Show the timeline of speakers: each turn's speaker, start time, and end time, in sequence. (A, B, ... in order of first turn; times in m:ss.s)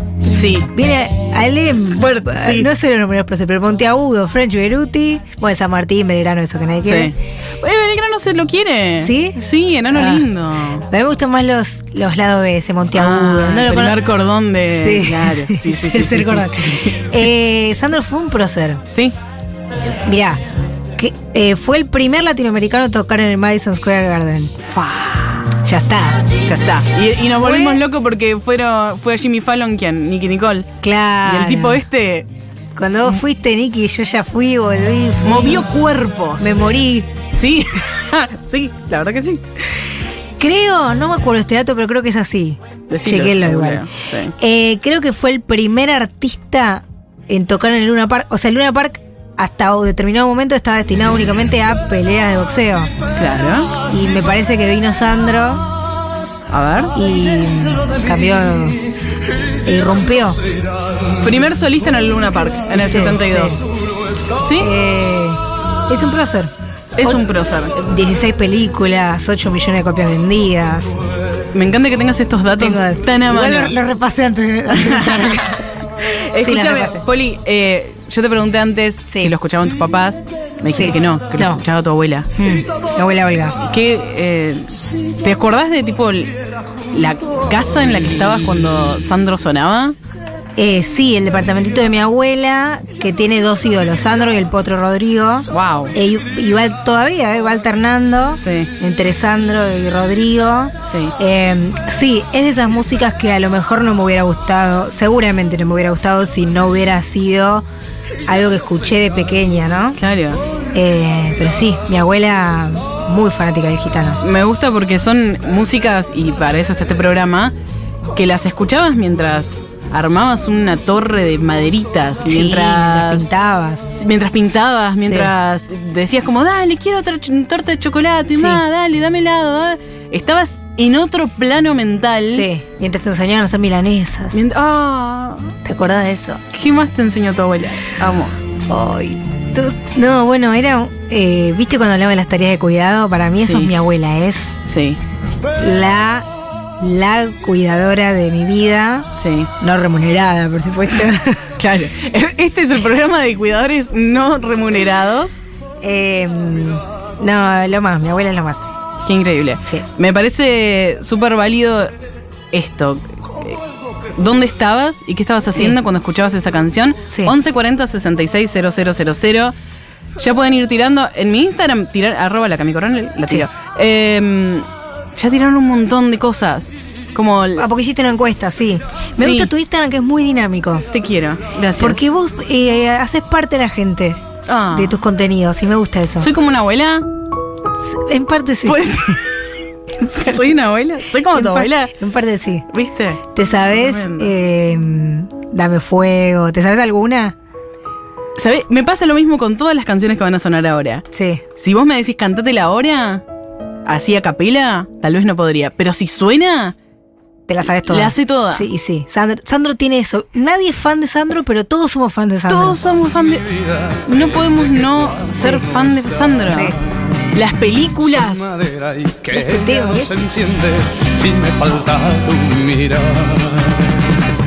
0:00.3-0:00.7 A
0:00.7-0:07.1 B
0:01.9-0:02.7 A
0:06.8-0:10.9 A
0:09.0-0:09.4 B
0:09.9-0:10.3 B
0:10.9-0:14.0 B
0:12.9-0:17.0 A
0:14.8-0:18.8 B
0:20.0-0:20.4 B
0:21.0-0:24.5 B
0:24.7-0:25.5 A
0:25.6-0:26.3 B
0:26.4-0:30.7 A
0:27.4-0:27.8 B
0:30.8-0:31.8 B
0:31.2-0:32.3 A
0:32.8-0:35.7 B
0:35.2-0:36.5 A
0:36.4-0:37.1 B
0:37.4-0:39.4 A
0:40.4-0:52.9 B
0:42.9-0:44.3 A
0:53.2-0:53.7 A
0:53.9-0:55.7 B
0:56.5-0:57.0 A
0:57.0-0:58.8 B
0:59.6-1:00.4 B
1:01.2-1:03.6 A
1:02.9-1:03.6 B
1:04.4-1:04.7 A
1:04.6-1:06.5 B
1:07.0-1:07.8 A
1:07.8-1:10.9 B
1:11.5-1:13.8 A
1:12.6-1:15.6 B
1:14.7-1:15.5 A
1:16.1-1:22.3 A
1:16.4-1:17.0 B
1:20.7-1:21.6 B
1:22.3-1:23.6 B
1:23.7-1:24.7 A
1:25.2-1:26.4 A
1:26.9-1:30.0 A
1:30.6-1:47.6 B
1:35.5-1:36.0 A
1:38.4-1:38.7 A
1:40.9-1:41.2 A
1:48.3-1:50.0 B
1:50.0-1:50.4 A
1:50.7-1:54.2 B
1:54.2-1:57.5 A
1:58.2-2:03.3 A
2:02.2-2:03.9 B
2:04.0-2:12.5 A
2:05.0-2:05.3 B
2:08.4-2:08.6 B
2:12.3-2:14.4 B
2:14.3-2:15.6 A
2:15.6-2:16.4 B
2:16.5-2:18.4 A
2:18.7-2:24.6 B
2:23.4-2:23.7 A
2:24.7-2:25.0 A
2:25.6-2:26.3 B
2:26.8-2:29.1 B
2:29.2-2:29.5 A
2:29.6-2:31.4 B
2:31.6-2:35.4 A
2:35.8-2:38.6 B
2:39.0-2:41.9 A
2:42.5-2:43.6 A
2:44.2-2:49.6 A
2:50.2-2:57.7 A
2:57.6-3:00.9 B
2:59.2-2:59.5 A
3:00.9-3:02.0 A
3:01.8-3:04.2 B
3:04.5-3:05.0 A
3:04.7-3:06.3 B
3:06.2-3:07.0 A
3:07.8-3:09.2 B
3:08.7-3:09.2 A
3:10.0-3:11.9 A
3:11.3-3:12.6 B
3:12.7-3:14.3 A
3:13.4-3:17.4 B
3:18.4-3:21.0 A
3:21.1-3:21.4 B
3:21.6-3:23.2 A
3:23.9-3:26.8 A
3:27.5-3:32.8 B
3:27.9-3:28.6 A
3:32.5-3:33.4 A
3:33.2-3:36.7 C
3:34.1-3:36.8 A
3:36.5-3:36.8 B
3:37.3-3:38.5 A
3:38.0-3:43.9 C
3:39.3-3:40.1 B